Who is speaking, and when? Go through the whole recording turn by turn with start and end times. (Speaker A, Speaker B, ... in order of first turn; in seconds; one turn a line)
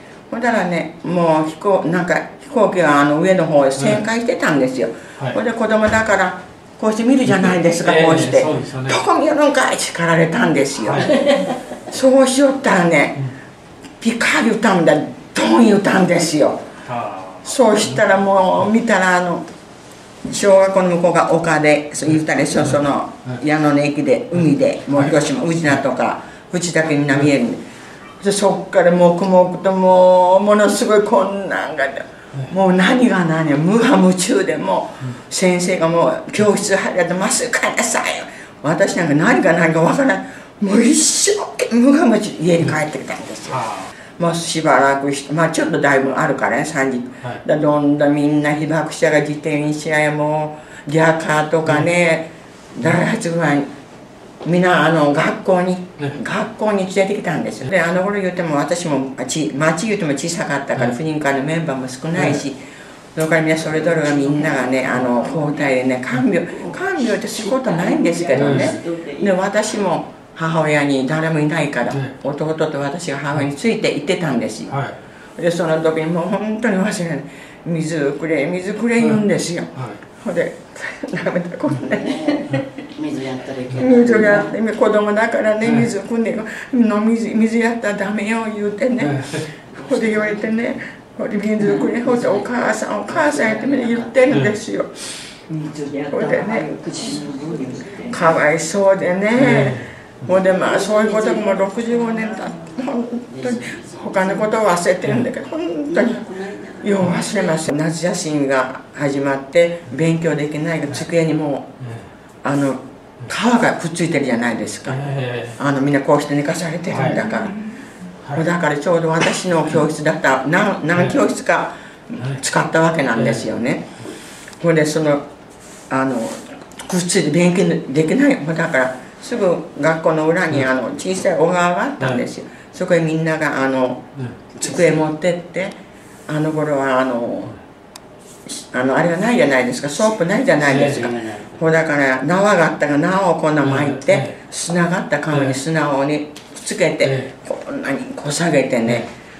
Speaker A: 0.3-11.2
Speaker B: 7.3-9.0
Speaker B: 10.8-11.1
Speaker A: 11.8-13.2
Speaker A: 14.0-16.6
Speaker B: 16.9-17.6
Speaker A: 17.4-19.4
Speaker A: 20.2-27.6
Speaker A: 28.2-43.6
Speaker B: 43.5-43.9
Speaker A: 44.1-53.7
Speaker A: 54.4-62.6
Speaker B: 62.2-62.4
Speaker A: 63.1-74.8
Speaker C: 63.7-65.8
Speaker C: 66.5-69.4
Speaker B: 68.3-68.8
Speaker A: 75.4-82.6
Speaker C: 81.9-84.5
Speaker A: 83.8-95.2
Speaker B: 89.0-89.5
Speaker C: 89.7-90.5
Speaker C: 91.6-92.5
Speaker C: 93.1-94.4
Speaker C: 95.5-98.4
Speaker A: 96.1-96.7
Speaker A: 98.1-106.2
Speaker B: 99.4-99.9
Speaker C: 100.5-102.7
Speaker C: 103.3-104.6
Speaker C: 105.9-107.6
Speaker A: 106.8-111.7
Speaker A: 112.4-117.6
Speaker B: 114.9-115.6
Speaker B: 116.9-117.3
Speaker A: 118.3-123.9
Speaker A: 124.6-125.2
Speaker A: 125.9-134.1
Speaker C: 134.6-135.0
Speaker A: 134.6-135.8
Speaker A: 136.3-137.6
Speaker A: 138.5-149.1
Speaker C: 140.7-141.6
Speaker B: 143.6-144.3
Speaker B: 147.0-147.3